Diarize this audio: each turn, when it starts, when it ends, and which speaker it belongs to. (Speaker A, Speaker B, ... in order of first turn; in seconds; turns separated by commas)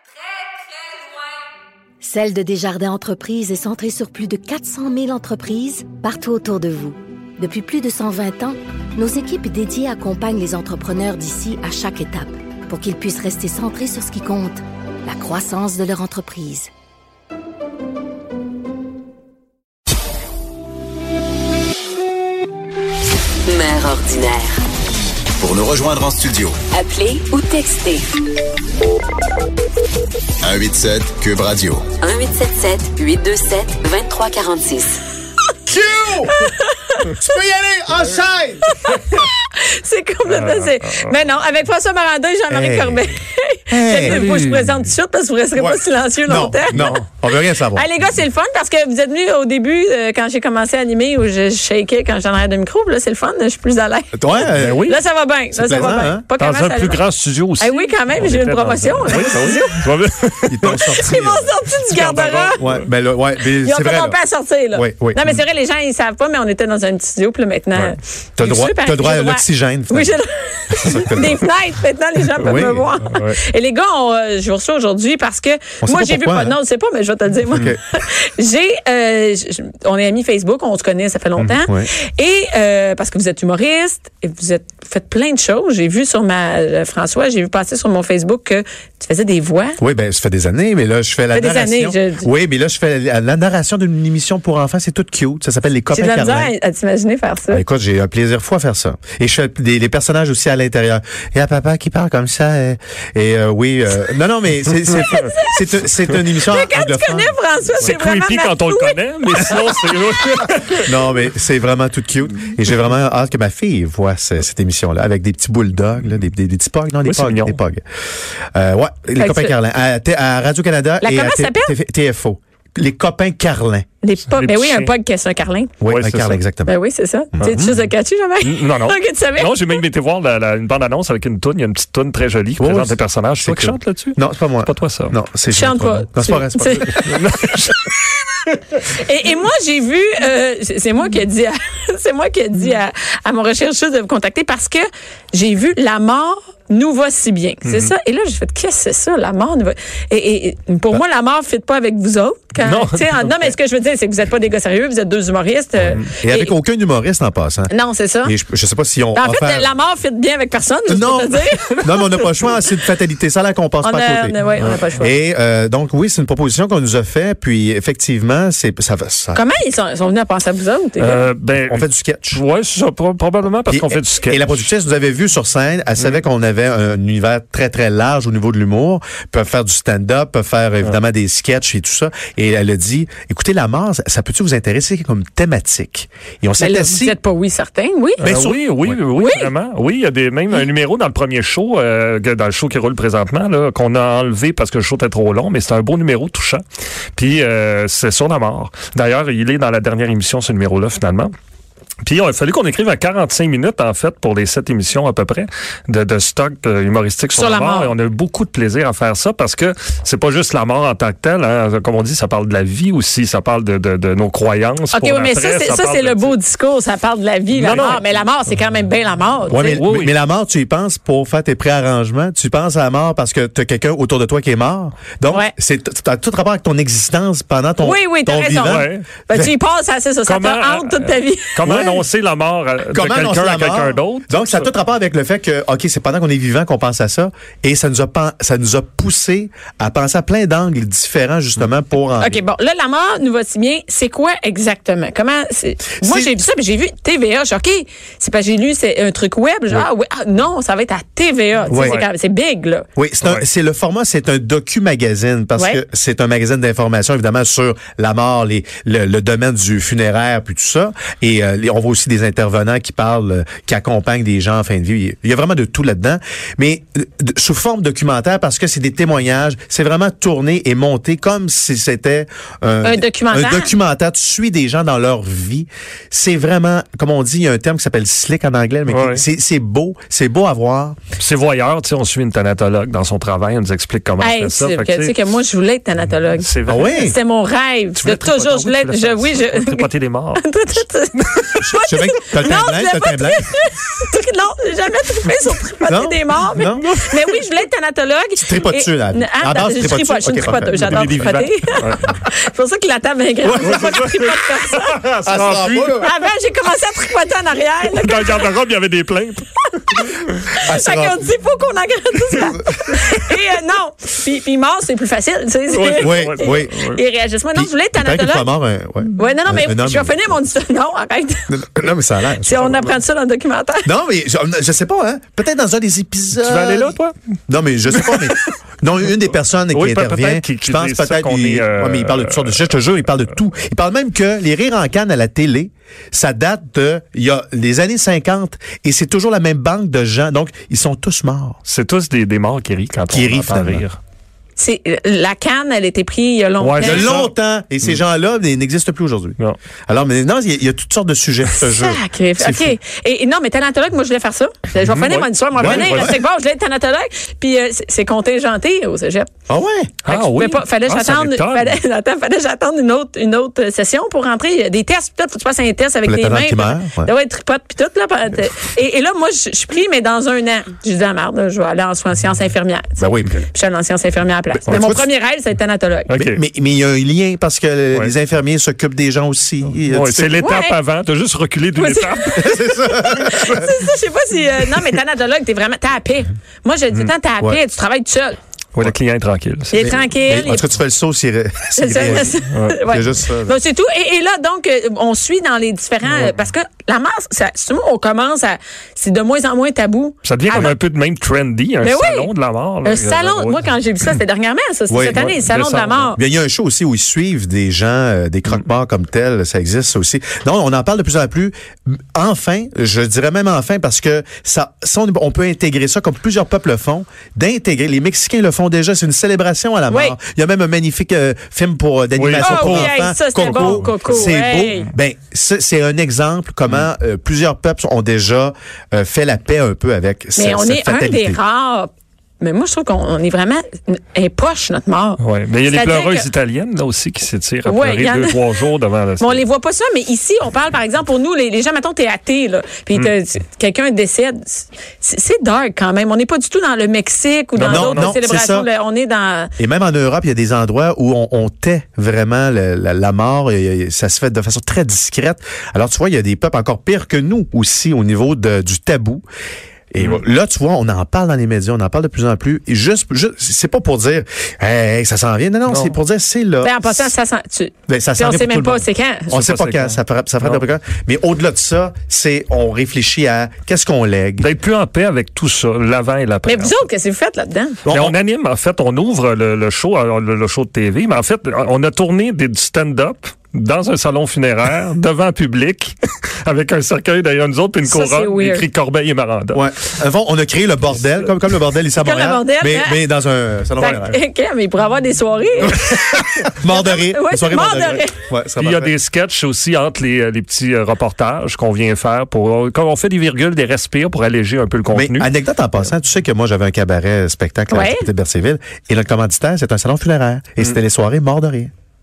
Speaker A: 2.0-16.7, Speaker B: 23.4-24.6, Speaker C: 25.4-26.6, Speaker B: 26.8-28.1, Speaker D: 26.9-28.0, Speaker C: 30.4-31.9, Speaker B: 32.0-35.0, Speaker E: 35.7-36.4, Speaker D: 36.2-37.1, Speaker E: 37.0-38.7, Speaker D: 38.7-54.1, Speaker F: 40.2-41.2, Speaker E: 42.5-43.1, Speaker E: 43.7-44.3, Speaker F: 43.9-44.8, Speaker E: 45.5-47.9, Speaker F: 46.7-47.0, Speaker E: 54.1-54.9, Speaker F: 54.5-55.0, Speaker D: 54.8-57.0, Speaker E: 55.5-56.2, Speaker F: 56.4-60.9, Speaker D: 57.6-59.7, Speaker E: 60.5-61.5, Speaker D: 60.7-62.6, Speaker F: 61.8-62.8, Speaker E: 62.6-64.2, Speaker D: 63.6-89.8, Speaker E: 64.7-65.2, Speaker E: 68.4-70.2, Speaker E: 70.7-71.4, Speaker F: 72.4-73.4, Speaker E: 72.4-72.9, Speaker E: 75.8-76.6, Speaker E: 77.5-77.8, Speaker E: 81.4-81.9, Speaker E: 89.8-96.5, Speaker D: 91.3-92.3, Speaker D: 95.9-97.6, Speaker E: 97.5-107.3, Speaker D: 105.0-105.6, Speaker D: 106.3-109.7, Speaker F: 107.8-111.1, Speaker E: 110.8-117.8, Speaker F: 117.0-117.6, Speaker E: 118.5-123.8, Speaker D: 119.2-119.6, Speaker D: 121.0-121.7, Speaker D: 124.0-125.7, Speaker F: 124.3-124.9, Speaker E: 125.8-126.7, Speaker F: 125.8-126.4, Speaker D: 126.6-129.8, Speaker E: 127.3-127.8, Speaker F: 128.4-135.2, Speaker E: 132.6-137.0, Speaker D: 135.5-137.0, Speaker F: 136.7-137.9, Speaker D: 138.8-156.5, Speaker F: 147.6-147.9, Speaker F: 152.6-153.5, Speaker F: 155.8-156.1, Speaker E: 156.1-157.7, Speaker D: 157.7-158.3, Speaker E: 158.2-159.7, Speaker D: 159.1-162.2, Speaker E: 160.9-169.4, Speaker D: 163.8-165.2, Speaker D: 169.3-171.3, Speaker F: 171.0-174.7, Speaker E: 171.5-172.4, Speaker E: 173.7-187.2, Speaker D: 186.6-188.3, Speaker E: 188.2-188.9, Speaker F: 188.2-196.6, Speaker D: 189.1-189.5, Speaker F: 197.2-201.3, Speaker F: 202.0-216.3, Speaker D: 207.3-207.9, Speaker D: 214.9-219.8, Speaker F: 217.5-218.1, Speaker E: 219.5-229.5, Speaker F: 219.6-220.1, Speaker D: 227.8-231.7, Speaker F: 228.6-229.1, Speaker F: 230.3-234.7, Speaker E: 231.6-232.0, Speaker E: 232.9-242.4, Speaker D: 242.2-252.8, Speaker E: 246.0-246.3, Speaker F: 251.7-252.0, Speaker E: 251.7-252.0, Speaker E: 252.9-281.0, Speaker D: 255.5-255.8, Speaker D: 272.8-273.7, Speaker F: 278.9-279.2, Speaker F: 281.2-285.1, Speaker D: 284.2-305.0, Speaker F: 286.4-287.1, Speaker E: 286.7-287.1, Speaker F: 287.9-290.4, Speaker F: 291.1-291.6, Speaker E: 291.7-293.5, Speaker E: 295.9-296.9, Speaker F: 296.8-297.3, Speaker E: 298.4-301.5, Speaker F: 300.9-301.1, Speaker F: 301.8-302.1, Speaker E: 303.4-304.0, Speaker F: 303.6-306.0, Speaker E: 305.2-306.1, Speaker D: 305.9-308.5, Speaker F: 307.9-310.1, Speaker D: 309.9-318.5, Speaker E: 310.6-311.2, Speaker E: 312.4-312.8, Speaker F: 315.7-317.0, Speaker E: 316.0-316.7, Speaker E: 317.5-320.5, Speaker D: 319.1-321.5, Speaker E: 321.5-323.0, Speaker D: 322.4-323.9, Speaker E: 323.8-327.0, Speaker F: 326.4-327.1, Speaker E: 327.5-341.6, Speaker F: 327.9-328.5, Speaker F: 329.7-332.7, Speaker F: 341.6-344.0, Speaker E: 343.1-343.8, Speaker D: 344.6-347.1, Speaker F: 346.6-348.0, Speaker E: 346.8-352.8, Speaker D: 351.6-359.3, Speaker F: 354.8-356.2, Speaker E: 355.6-356.2, Speaker E: 359.5-359.9, Speaker F: 360.0-361.8, Speaker D: 360.1-376.1, Speaker E: 366.0-367.1, Speaker E: 373.0-373.5, Speaker E: 374.6-375.1, Speaker F: 374.7-374.9, Speaker F: 376.1-376.4, Speaker E: 376.1-380.5, Speaker F: 379.7-382.6, Speaker D: 380.4-380.8, Speaker D: 381.8-382.4, Speaker E: 382.4-383.7, Speaker D: 383.0-388.4, Speaker F: 388.7-389.9, Speaker D: 389.7-390.7, Speaker E: 389.7-393.6, Speaker D: 391.8-400.8, Speaker F: 392.5-392.8, Speaker F: 396.0-396.3, Speaker F: 400.2-403.7, Speaker D: 401.8-402.3, Speaker D: 402.8-406.2, Speaker E: 404.9-405.4, Speaker F: 405.1-406.2, Speaker E: 406.1-431.4, Speaker D: 419.9-420.1, Speaker F: 422.1-424.9, Speaker D: 422.4-424.9, Speaker D: 430.4-436.3, Speaker F: 435.2-439.4, Speaker D: 437.6-438.4, Speaker D: 439.2-449.5, Speaker F: 447.6-448.1, Speaker E: 447.6-448.7, Speaker E: 449.6-459.2, Speaker E: 459.9-467.1, Speaker F: 465.7-465.9, Speaker D: 466.6-469.3, Speaker E: 467.9-474.5, Speaker F: 469.3-470.6, Speaker F: 474.4-476.8, Speaker D: 476.4-477.8, Speaker E: 477.8-478.1, Speaker F: 477.9-489.9, Speaker D: 487.9-488.6, Speaker E: 489.5-494.2, Speaker F: 490.9-491.4, Speaker D: 491.9-493.0, Speaker D: 493.8-498.1, Speaker E: 495.6-498.9, Speaker F: 498.6-505.3, Speaker E: 504.9-511.7, Speaker D: 507.7-508.1